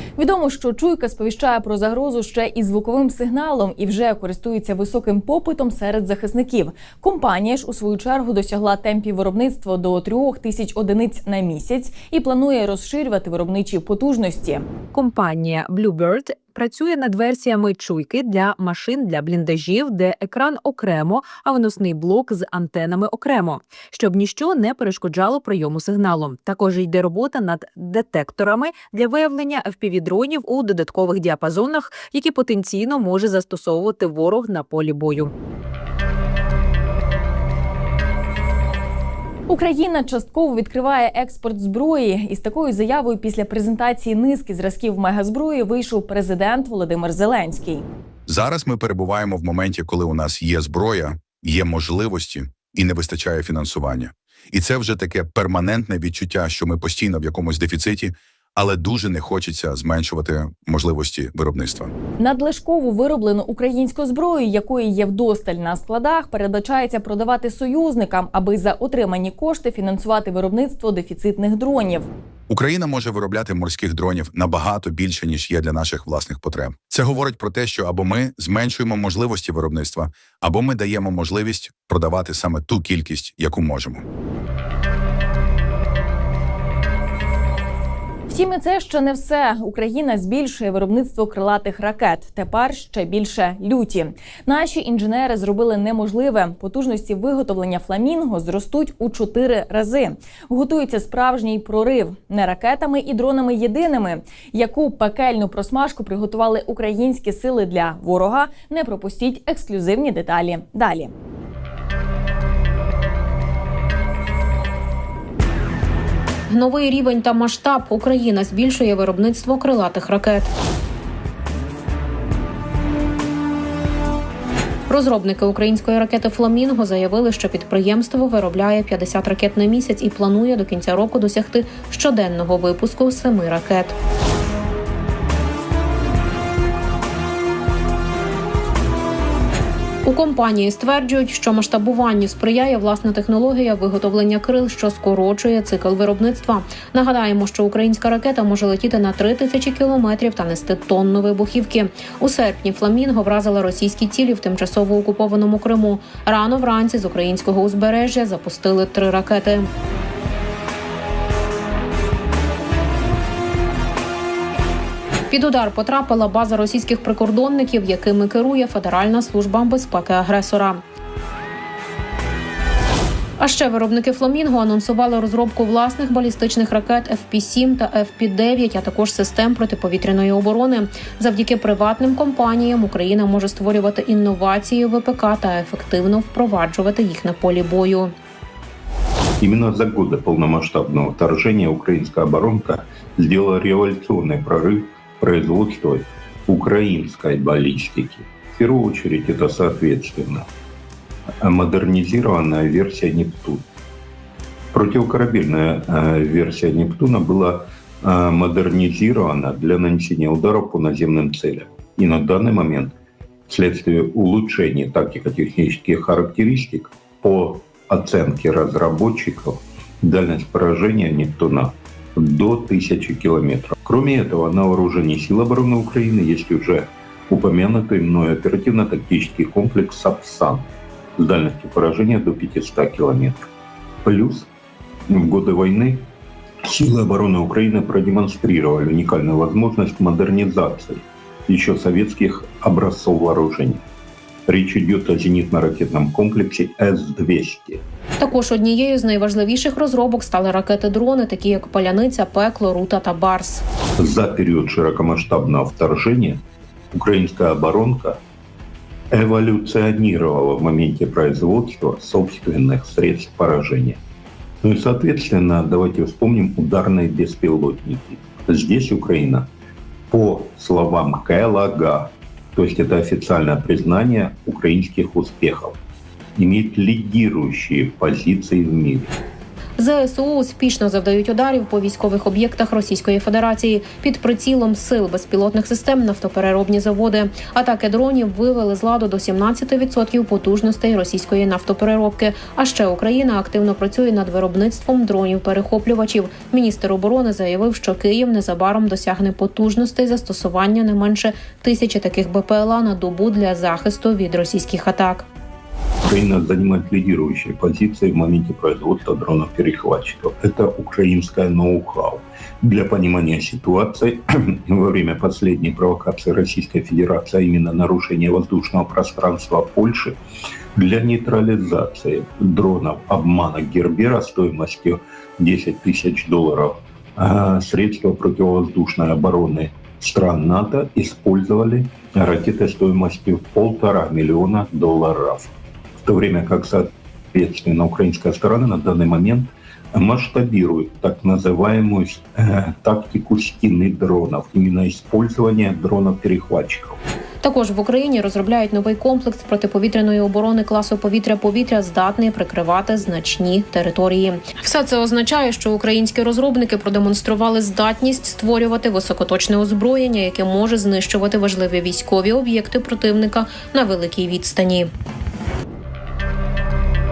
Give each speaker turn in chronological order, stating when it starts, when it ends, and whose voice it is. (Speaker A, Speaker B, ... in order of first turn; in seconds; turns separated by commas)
Speaker A: 0.2-14.7, Speaker B: 14.9-35.3, Speaker A: 39.5-47.9, Speaker C: 48.3-61.9, Speaker A: 62.2-72.1, Speaker C: 72.5-84.0, Speaker A: 88.3-111.1, Speaker D: 116.5-120.5, Speaker D: 124.9-133.9, Speaker D: 140.1-159.7, Speaker D: 165.3-170.8, Speaker D: 173.4-188.1, Speaker E: 189.4-200.5, Speaker E: 201.4-203.6, Speaker E: 204.7-212.9, Speaker E: 213.5-233.4, Speaker E: 234.0-234.5, Speaker E: 235.1-236.1, Speaker E: 236.6-243.8, Speaker E: 244.5-247.8, Speaker D: 248.2-253.6, Speaker E: 254.0-258.2, Speaker E: 259.1-264.0, Speaker E: 264.6-269.5, Speaker E: 270.1-275.8, Speaker E: 276.4-279.1, Speaker D: 279.8-305.3, Speaker E: 306.1-320.2, Speaker E: 320.8-335.5, Speaker E: 336.1-347.0, Speaker D: 347.4-364.9